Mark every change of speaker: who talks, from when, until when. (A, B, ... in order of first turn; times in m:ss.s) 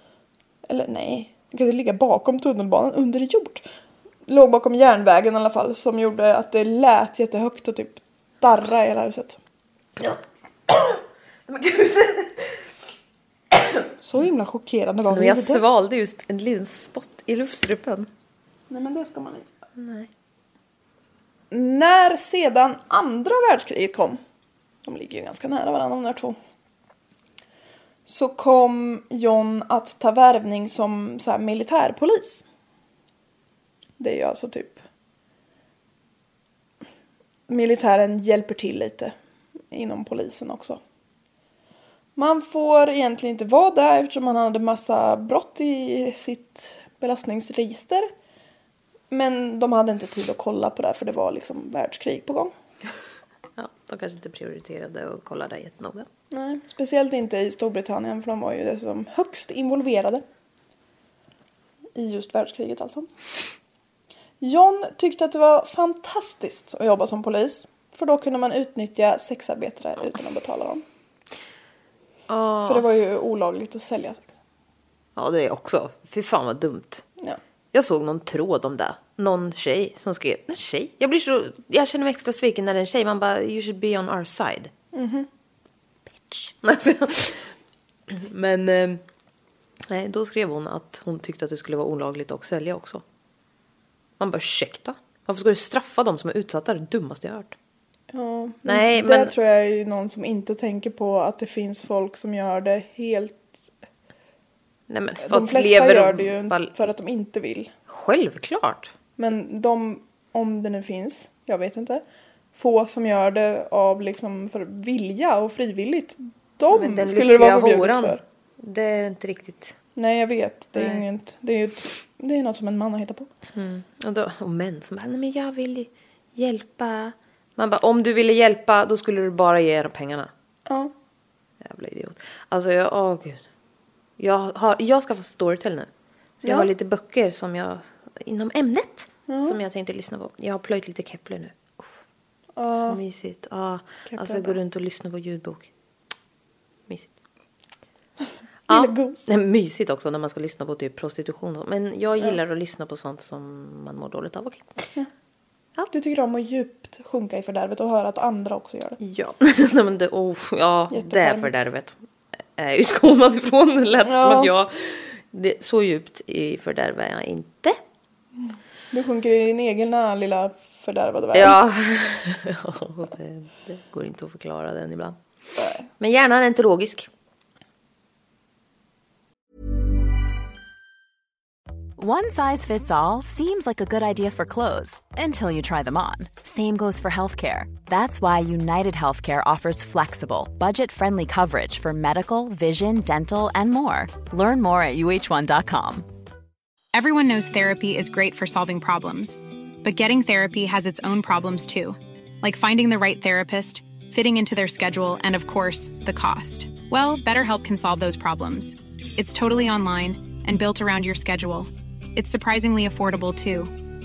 0:00.7-0:03.6 A
0:04.3-0:09.4 A
0:10.7-0:12.5 B
0:14.0-0:15.6 A
0:15.1-0:18.1 B
0:18.7-0:19.5 A
0:19.8-0:20.1 B
0:21.5-0:24.2 A
0:24.8-0:26.4 A
0:28.1-0:32.4 A
0:34.0-0:34.8 A
0:37.5-0:39.2 A
0:39.7-0:40.8 A
0:42.2-0:48.1 A
0:49.1-0:52.5 A
0:53.6-0:56.1 B
0:56.3-1:00.2 A
1:02.0-1:03.1 A
1:04.4-1:10.8 A
1:12.3-1:12.8 B
1:12.6-1:14.4 A
1:15.2-1:17.0 B
1:17.7-1:24.7 B
1:24.9-1:25.3 A
1:26.3-1:27.5 B
1:28.1-1:29.0 B
1:29.9-1:33.0 B
1:34.2-1:37.6 B
1:38.1-1:43.7 A
1:38.7-1:39.3 B
1:44.9-1:46.7 B
1:45.2-1:47.7 A
1:47.9-1:48.9 B
1:49.2-1:52.0 A
1:52.6-1:58.2 A
1:56.7-1:59.8 B
2:00.0-2:03.3 A
2:00.8-2:01.0 B
2:03.6-2:10.3 B
2:10.7-2:10.9 A
2:11.6-2:13.4 B
2:14.2-2:15.9 B
2:16.4-2:22.0 B
2:16.4-2:16.7 A
2:19.3-2:19.6 A
2:22.6-2:23.0 A
2:22.7-2:25.7 B
2:24.1-2:24.6 A
2:26.9-2:27.1 B
2:28.7-2:29.2 A
2:28.7-2:34.8 B
2:35.9-2:39.0 A
2:39.0-2:42.0 B
2:40.9-2:41.5 A
2:42.6-2:47.8 B
2:44.0-2:44.5 A
2:48.4-2:51.6 A
2:51.3-2:55.2 B
2:55.6-2:55.8 A
2:56.0-2:57.1 B
3:02.0-3:16.1 C
3:16.9-3:33.7 D